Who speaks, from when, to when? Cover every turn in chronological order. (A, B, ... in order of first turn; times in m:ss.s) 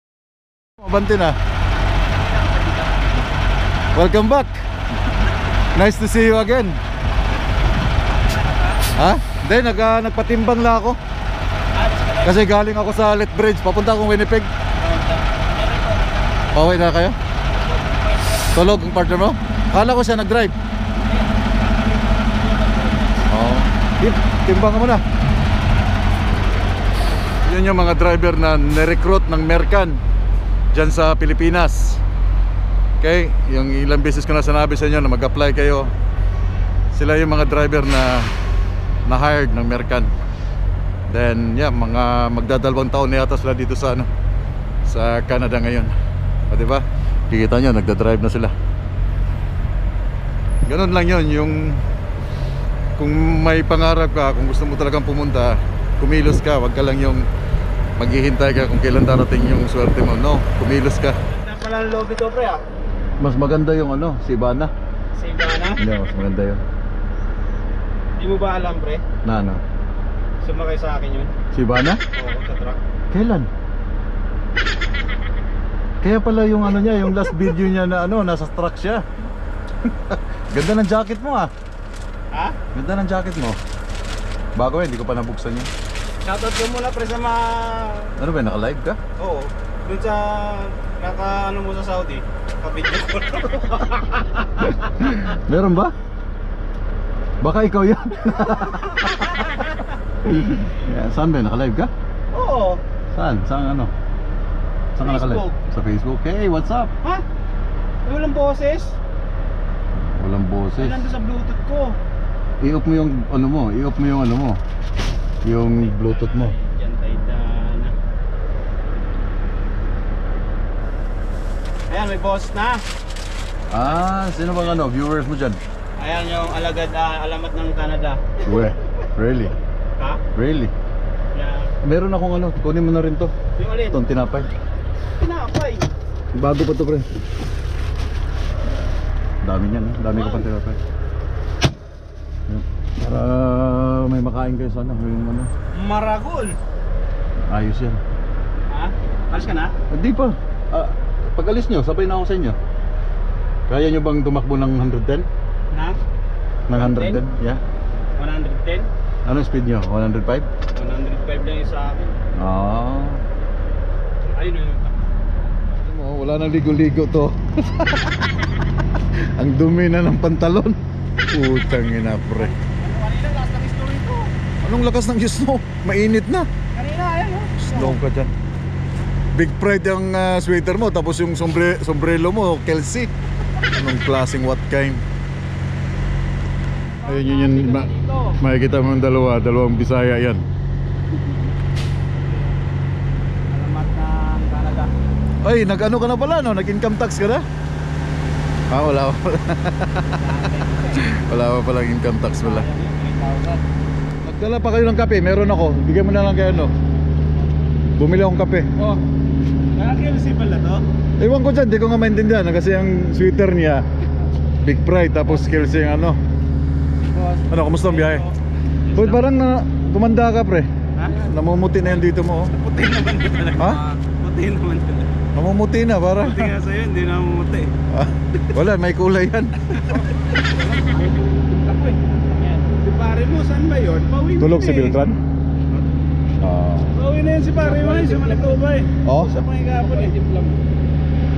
0:00.8-0:01.4 A
0:02.2-0:03.2 B
0:04.0-0:04.7 A
0:05.7-0:06.8 A
0:09.0-0:11.0 A
0:11.7-0:12.4 B
0:12.2-0:14.5 A
0:14.8-0:16.4 B
0:16.5-0:17.2 A
0:17.4-0:18.6 B
0:18.5-0:20.6 A
0:21.0-0:23.3 B
0:23.3-0:25.0 A
0:27.4-0:30.0 A
0:30.7-0:32.0 A
0:33.0-0:35.9 A
0:36.9-0:38.3 A
0:39.1-0:40.1 A
0:41.1-0:44.1 A
0:44.8-0:45.9 A
0:46.5-0:48.5 A
0:50.6-0:51.9 A
0:53.0-0:57.3 A
0:58.0-1:01.2 A
1:01.3-1:02.6 B
1:03.2-1:04.7 A
1:05.2-1:05.8 B
1:05.8-1:06.6 A
1:08.2-1:09.0 B
1:09.2-1:09.6 A
1:10.4-1:11.3 B
1:11.5-1:12.0 A
1:12.1-1:12.8 B
1:13.1-1:13.5 A
1:16.0-1:19.0 A
1:19.8-1:21.5 A
1:22.7-1:23.6 A
1:24.6-1:25.7 A
1:26.2-1:28.1 B
1:28.2-1:29.0 A
1:29.2-1:34.8 B
1:34.8-1:35.9 A
1:37.4-1:39.6 A
1:39.0-1:39.8 B
1:40.2-1:41.9 A
1:42.3-1:42.8 B
1:43.1-1:43.9 A
1:45.0-1:46.9 A
1:45.0-1:45.6 B
1:48.0-1:49.0 B
1:50.0-1:51.1 A
1:50.8-1:52.0 B
1:52.6-1:54.6 A
1:55.4-1:56.5 A
1:55.7-1:57.9 B
2:01.9-2:02.8 B
2:03.7-2:05.6 A
2:06.0-2:08.4 B
2:08.4-2:09.6 A
2:10.4-2:10.7 A
2:11.4-2:11.7 B
2:11.8-2:13.3 A
2:13.6-2:14.0 B
2:13.9-2:14.5 A
2:15.2-2:15.9 B
2:16.3-2:17.1 A
2:19.4-2:20.8 A
2:20.1-2:20.5 B
2:22.5-2:25.5 A
2:25.7-2:26.6 B
2:27.5-2:28.0 A
2:28.7-2:29.7 B
2:29.9-2:32.6 A
2:33.7-2:35.3 A
2:35.7-2:36.0 B
2:36.7-2:37.6 A
2:36.7-2:37.2 B
2:38.2-2:38.9 B
2:39.2-2:40.5 A
2:40.7-2:42.2 B
2:42.4-2:43.3 A
2:44.2-2:45.0 B
2:45.8-2:48.3 A
2:49.0-2:52.5 A
2:52.3-2:54.3 B
2:54.6-2:56.5 A
2:56.8-2:58.0 B
2:57.6-2:58.3 A
2:59.3-3:03.1 A
3:03.6-3:05.0 A
3:07.0-3:08.4 B
3:07.0-3:10.4 A
3:12.3-3:12.6 B
3:13.5-3:14.9 B
3:15.4-3:17.4 A
3:18.7-3:20.2 A
3:20.1-3:21.2 B
3:21.0-3:22.7 A
3:22.4-3:23.6 B
3:24.2-3:26.7 A
3:28.0-3:28.7 A
3:28.8-3:29.0 B
3:29.7-3:30.8 B
3:31.2-3:33.8 A
3:34.6-3:36.2 A
3:37.1-3:39.2 B
3:37.5-3:38.2 A
3:39.0-3:42.5 A
3:41.0-3:41.2 B
3:42.5-3:45.1 B
3:43.6-3:43.8 A
3:45.3-3:46.5 A
3:46.2-3:47.7 B
3:47.9-3:49.8 A
3:49.8-3:55.0 B
3:54.4-3:55.2 A
3:56.4-3:57.0 A
3:56.9-4:00.2 B
3:59.0-3:59.4 A